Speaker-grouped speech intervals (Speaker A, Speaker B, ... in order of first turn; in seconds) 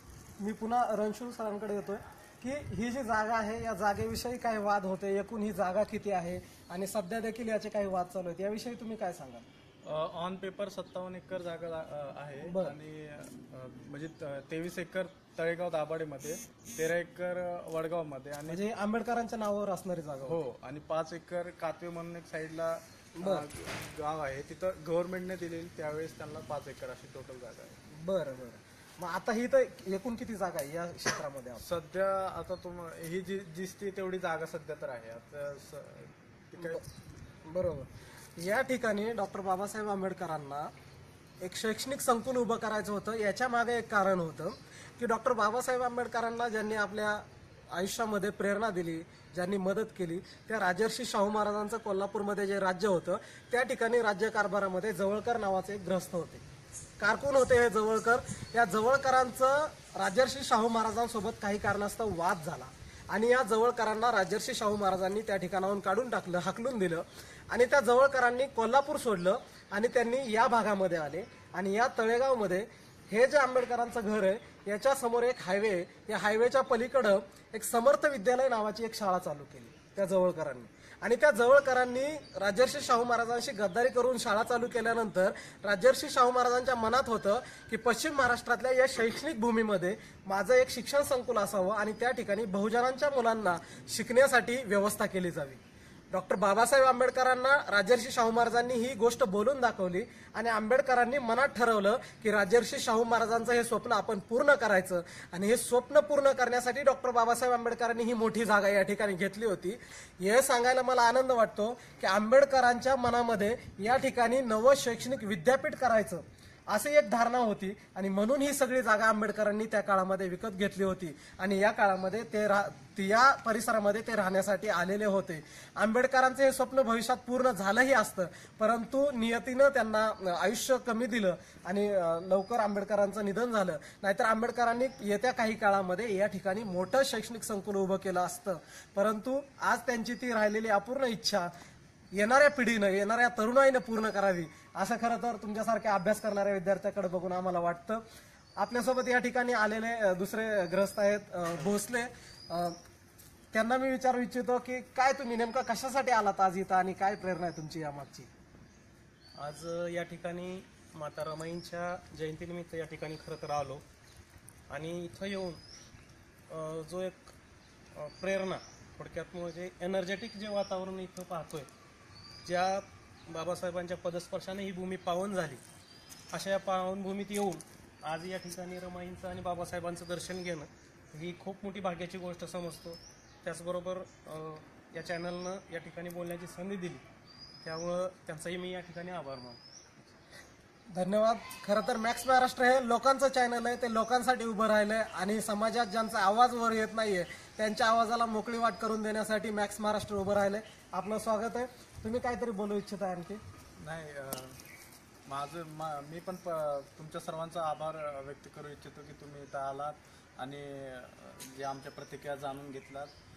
Speaker A: 0.4-9.4, 12.4-12.7, 18.5-20.4, 23.2-23.4, 27.9-31.6, 37.4-40.7, 41.4-56.4, 57.0-95.6, 96.1-141.5, 142.1-148.0, 148.6-152.8, 153.5-158.3, 190.9-203.4
Speaker B: 9.8-18.6, 20.2-27.8, 31.6-36.8, 203.8-204.6, 205.3-213.1
Speaker C: 159.4-163.8, 164.7-165.6, 166.5-167.3, 167.9-171.7, 172.4-175.6, 176.3-187.0, 187.6-189.6